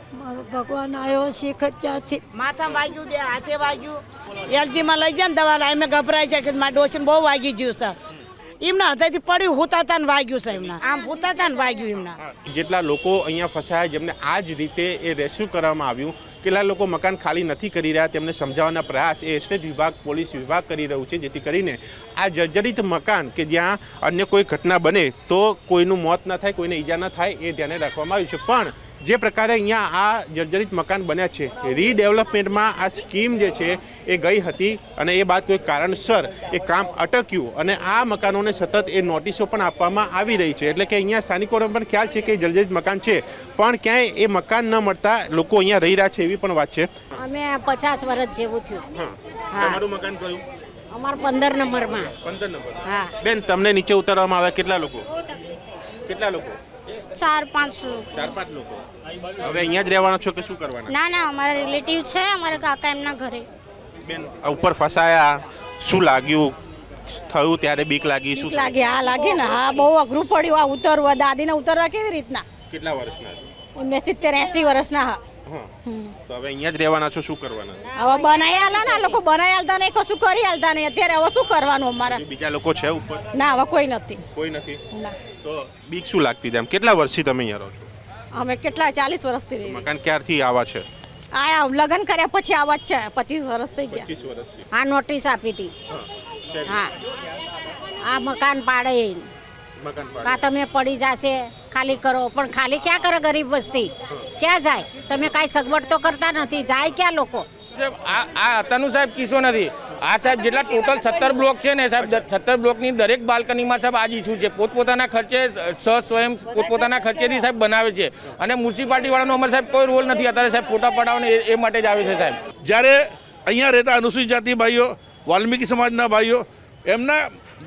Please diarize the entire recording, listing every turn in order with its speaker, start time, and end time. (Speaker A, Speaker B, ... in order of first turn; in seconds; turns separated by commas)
Speaker A: 0.2-2.2, Speaker B: 2.3-8.0, Speaker B: 8.6-12.2, Speaker C: 12.4-47.1, Speaker D: 47.2-48.8, Speaker C: 49.0-50.4, Speaker D: 49.5-49.8, Speaker D: 50.9-52.1, Speaker C: 52.2-55.1, Speaker C: 56.1-56.6, Speaker E: 57.0-58.3, Speaker C: 58.1-58.8, Speaker C: 59.4-61.0, Speaker E: 60.9-63.5, Speaker C: 64.1-66.5, Speaker C: 67.1-68.8, Speaker F: 68.3-72.5, Speaker C: 72.7-73.4, Speaker F: 73.8-75.2, Speaker C: 75.5-75.7, Speaker F: 75.9-76.1, Speaker C: 76.2-77.9, Speaker F: 78.0-82.2, Speaker C: 82.1-83.3, Speaker F: 83.3-84.2, Speaker C: 84.3-84.8, Speaker C: 85.4-87.9, Speaker F: 88.3-89.8, Speaker C: 89.7-90.9, Speaker F: 91.3-94.0, Speaker C: 93.9-94.7, Speaker D: 94.7-95.7, Speaker C: 95.9-96.9, Speaker D: 98.1-99.3, Speaker C: 99.8-100.4, Speaker D: 100.2-107.5, Speaker G: 107.8-122.4, Speaker H: 122.6-127.2